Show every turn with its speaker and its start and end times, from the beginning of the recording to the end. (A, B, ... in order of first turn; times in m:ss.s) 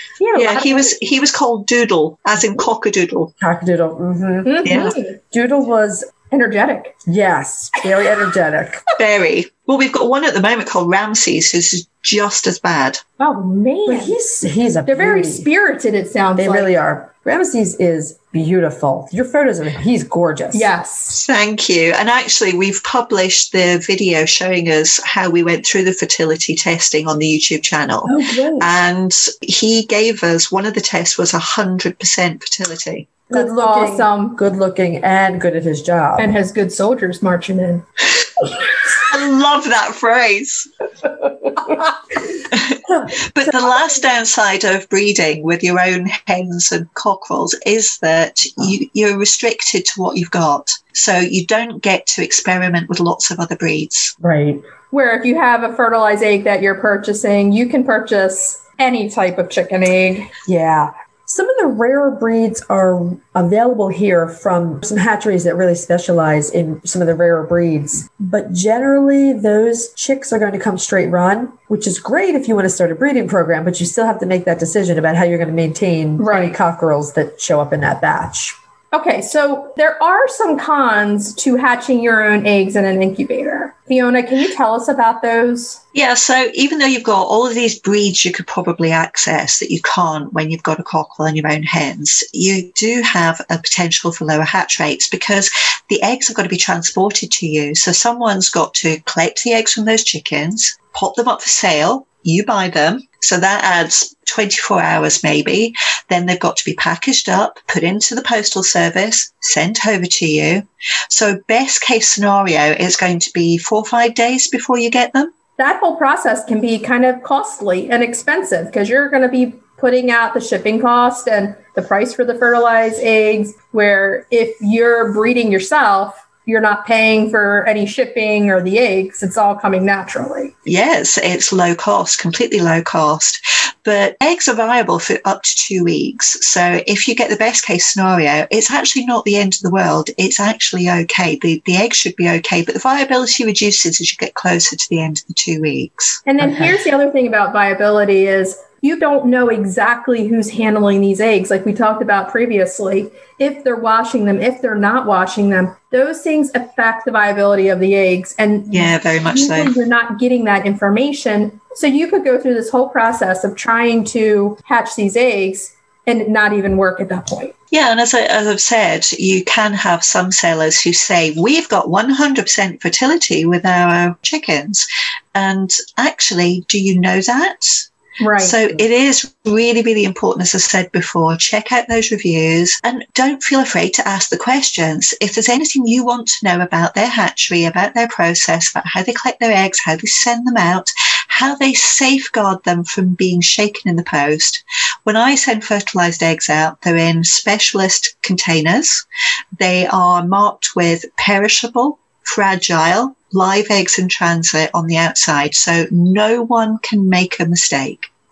0:00.2-0:00.9 A
0:00.3-0:03.3 B
0:03.4-0:06.1 C
0:04.4-0:05.2 A
0:04.6-0:05.0 B
0:06.3-0:07.0 A
0:07.1-0:08.8 C
0:09.0-0:13.0 B
0:13.2-0:14.2 A
0:13.9-0:15.5 C
0:14.8-0:16.7 A
0:16.4-0:20.7 C
0:20.5-0:21.2 A
0:21.1-0:33.1 B
0:28.0-0:28.7 C
0:33.3-0:36.3 C
0:33.3-0:34.4 A
0:36.2-0:37.8 A
0:38.9-0:40.7 B
0:42.4-0:54.1 B
0:42.9-0:43.5 C
0:54.2-0:54.6 C
0:54.9-1:00.3 A
1:00.5-1:18.6 C
1:16.2-1:16.5 A
1:18.9-1:25.8 A
1:25.9-1:55.3 B
1:55.6-2:10.5 A
2:10.7-2:26.2 B
2:26.3-2:47.5 A
2:26.4-2:26.7 C
2:38.7-2:39.7 B
2:47.7-3:19.0 B
2:58.2-2:58.6 A
3:19.6-3:28.1 B